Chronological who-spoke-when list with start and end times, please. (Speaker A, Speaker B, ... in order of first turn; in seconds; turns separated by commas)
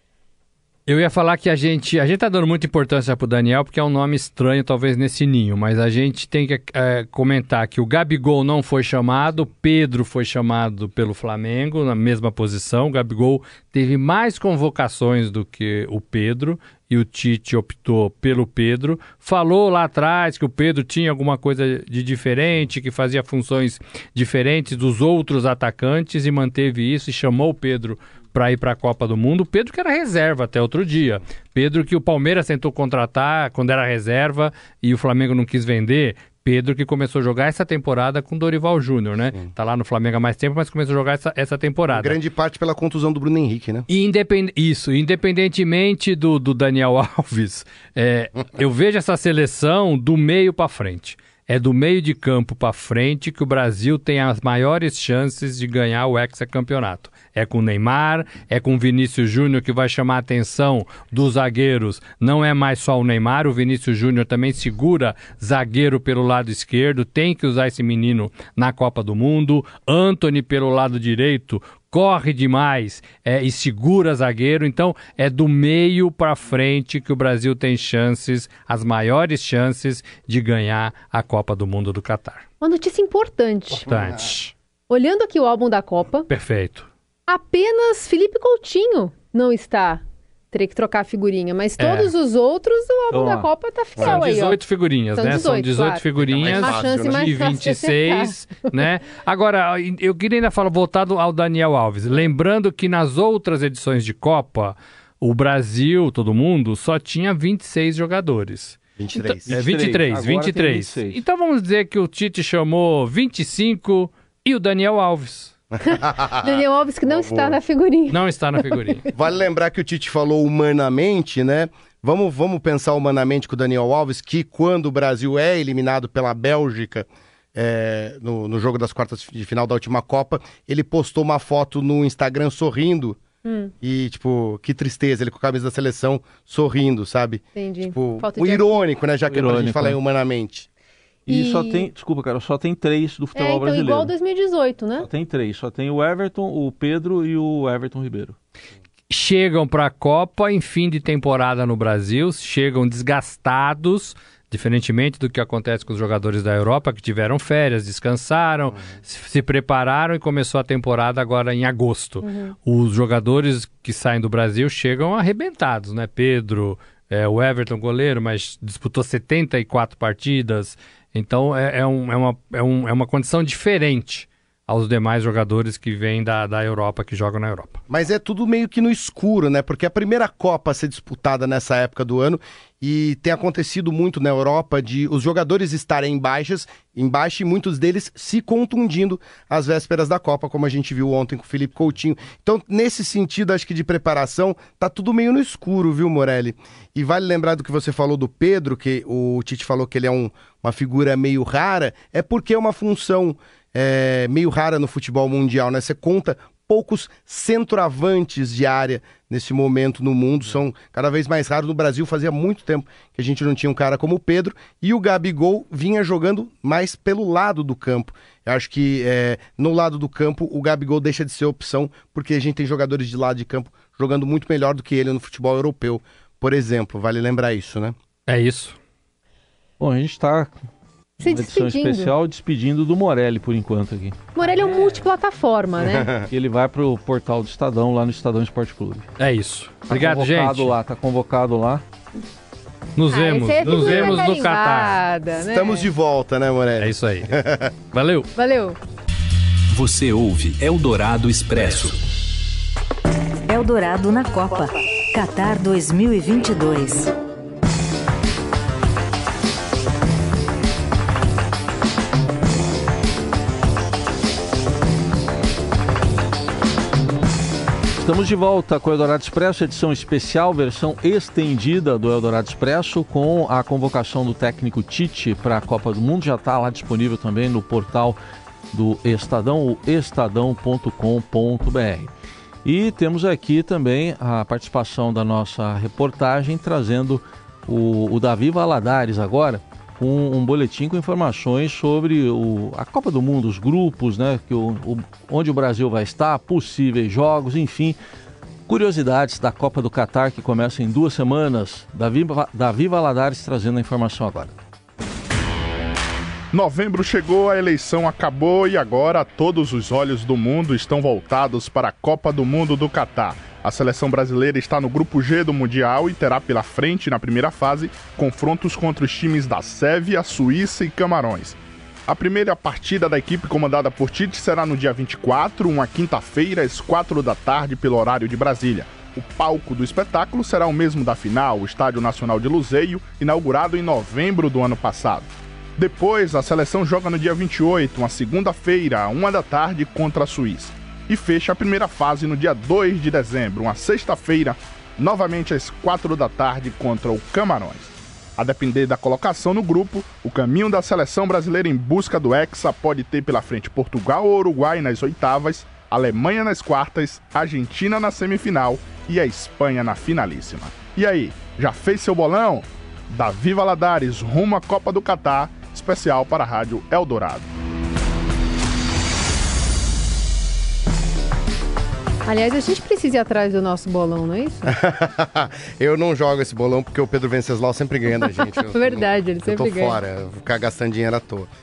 Speaker A: 0.9-42.2, Speaker B: 41.9-43.9, Speaker A: 43.9-82.5, Speaker C: 82.6-83.9, Speaker A: 83.8-84.5, Speaker C: 84.9-86.3, Speaker A: 86.3-86.9, Speaker C: 87.3-94.6, Speaker A: 91.8-92.1, Speaker D: 93.1-93.5, Speaker A: 94.0-108.8, Speaker C: 95.1-98.3, Speaker B: 96.2-97.4, Speaker B: 109.0-109.5, Speaker D: 109.5-111.2, Speaker A: 109.5-115.6, Speaker B: 115.9-117.6, Speaker C: 116.4-119.0, Speaker A: 118.1-119.0, Speaker B: 119.1-133.2, Speaker C: 133.4-133.7, Speaker B: 133.8-140.7, Speaker C: 137.5-138.8, Speaker D: 139.3-140.0, Speaker C: 141.3-141.9, Speaker D: 141.3-144.1, Speaker C: 143.3-145.1, Speaker D: 145.0-148.3, Speaker A: 149.1-177.8, Speaker C: 162.2-162.5, Speaker B: 177.9-227.9, Speaker A: 228.3-228.8, Speaker D: 229.8-230.5, Speaker C: 231.2-232.1, Speaker D: 231.2-234.2, Speaker C: 234.3-236.1, Speaker B: 235.8-236.2, Speaker D: 236.3-239.1, Speaker A: 239.2-240.7, Speaker D: 239.9-241.8, Speaker A: 242.9-245.0, Speaker C: 243.1-245.9, Speaker B: 245.4-247.7, Speaker A: 246.8-247.3, Speaker A: 247.9-248.3, Speaker C: 248.3-248.8, Speaker E: 249.7-252.0, Speaker F: 253.5-257.1, Speaker D: 268.0-278.2, Speaker D: 278.7-282.1, Speaker D: 282.6-298.0, Speaker D: 298.7-304.5, Speaker G: 306.5-367.4, Speaker C: 372.2-374.8, Speaker B: 374.7-381.5, Speaker C: 378.2-380.0